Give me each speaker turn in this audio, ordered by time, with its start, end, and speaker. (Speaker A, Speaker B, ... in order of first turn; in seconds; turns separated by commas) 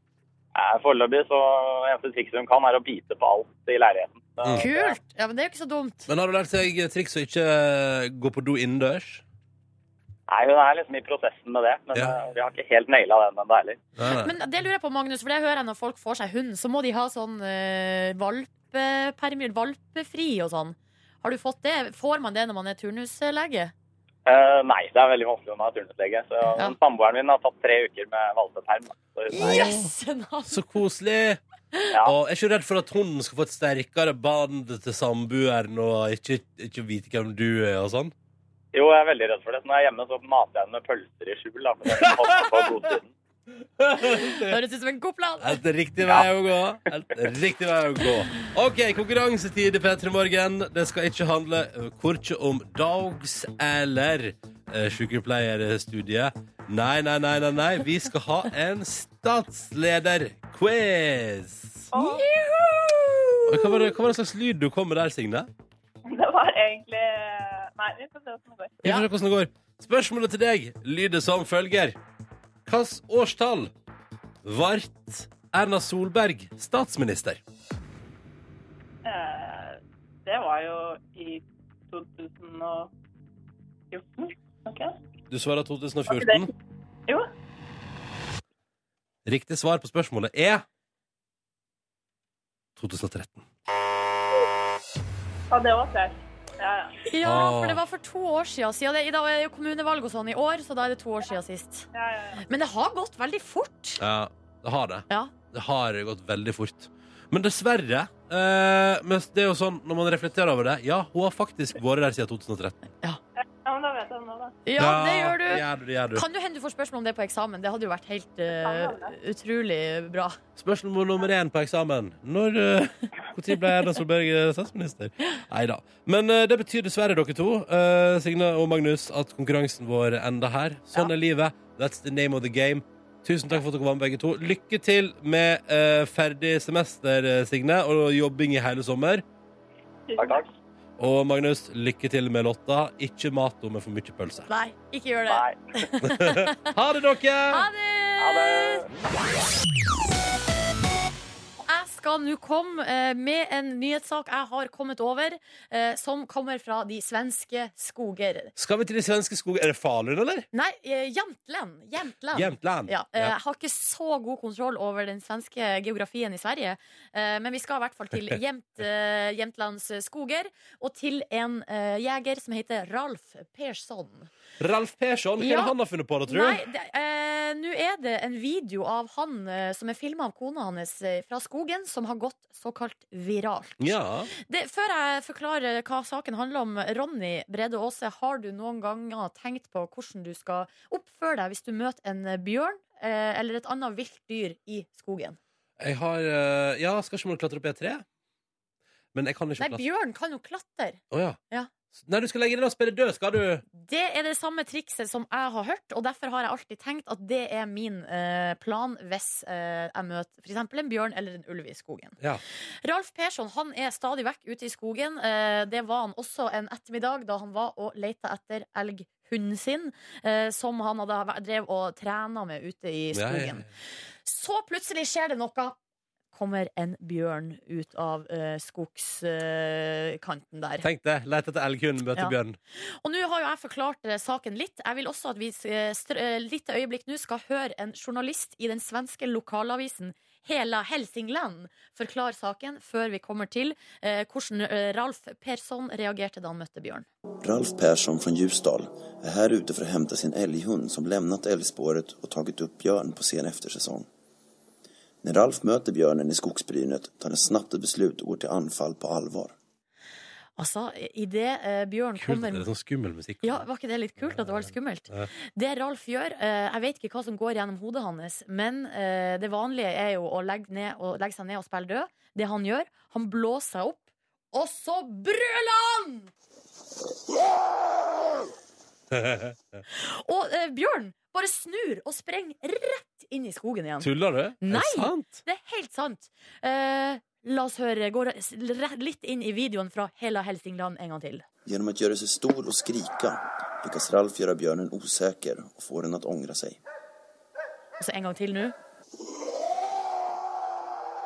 Speaker A: 0.5-5.0, Speaker B: 4.6-6.1, Speaker C: 6.1-9.2, Speaker A: 10.3-13.8, Speaker C: 14.0-14.3, Speaker B: 14.1-23.7, Speaker A: 24.2-29.7, Speaker B: 29.3-30.6, Speaker C: 29.4-29.8, Speaker C: 30.4-31.4, Speaker C: 32.0-38.1, Speaker A: 38.7-43.1, Speaker C: 41.9-42.6, Speaker C: 43.8-44.6, Speaker B: 44.0-45.6, Speaker C: 45.4-61.9, Speaker D: 61.9-62.3, Speaker B: 61.9-63.9, Speaker C: 63.5-65.5, Speaker D: 66.1-68.7, Speaker C: 68.8-72.0, Speaker C: 72.7-73.7, Speaker C: 74.4-77.4, Speaker D: 79.0-82.9, Speaker D: 83.9-84.9, Speaker C: 85.3-86.5, Speaker D: 86.1-86.5, Speaker C: 89.2-90.6, Speaker C: 92.8-93.5, Speaker D: 95.5-97.0, Speaker B: 97.0-101.9, Speaker C: 97.2-97.8, Speaker D: 101.9-102.4, Speaker B: 102.4-104.0, Speaker C: 104.0-112.8, Speaker D: 113.4-114.6, Speaker B: 114.7-115.6, Speaker C: 114.8-116.2, Speaker B: 116.1-120.3, Speaker D: 118.5-119.1, Speaker C: 120.6-139.2, Speaker D: 140.1-140.4, Speaker A: 140.2-140.4, Speaker C: 141.0-144.5, Speaker B: 144.5-146.7, Speaker A: 145.3-145.6, Speaker C: 146.0-147.7, Speaker B: 147.5-148.8, Speaker A: 148.2-148.9, Speaker B: 151.7-158.5, Speaker C: 158.6-160.5, Speaker B: 160.5-174.3, Speaker C: 162.3-163.3, Speaker C: 174.6-176.6, Speaker B: 175.4-175.7, Speaker B: 176.3-195.4, Speaker C: 183.8-184.3, Speaker C: 195.8-198.0, Speaker C: 199.1-199.8, Speaker B: 199.6-201.7, Speaker C: 201.1-201.4, Speaker C: 201.9-203.6, Speaker B: 203.7-212.2, Speaker B: 212.8-223.7, Speaker C: 223.1-223.7, Speaker B: 224.2-225.7, Speaker B: 226.3-230.8, Speaker C: 230.8-232.6, Speaker B: 233.0-247.1, Speaker E: 247.4-254.1, Speaker E: 255.2-259.5, Speaker B: 260.6-262.7, Speaker C: 262.1-263.6, Speaker B: 263.4-276.3, Speaker C: 264.2-264.6, Speaker C: 279.1-279.5, Speaker B: 279.9-291.4, Speaker C: 284.0-285.4, Speaker E: 291.6-296.8, Speaker B: 298.0-298.7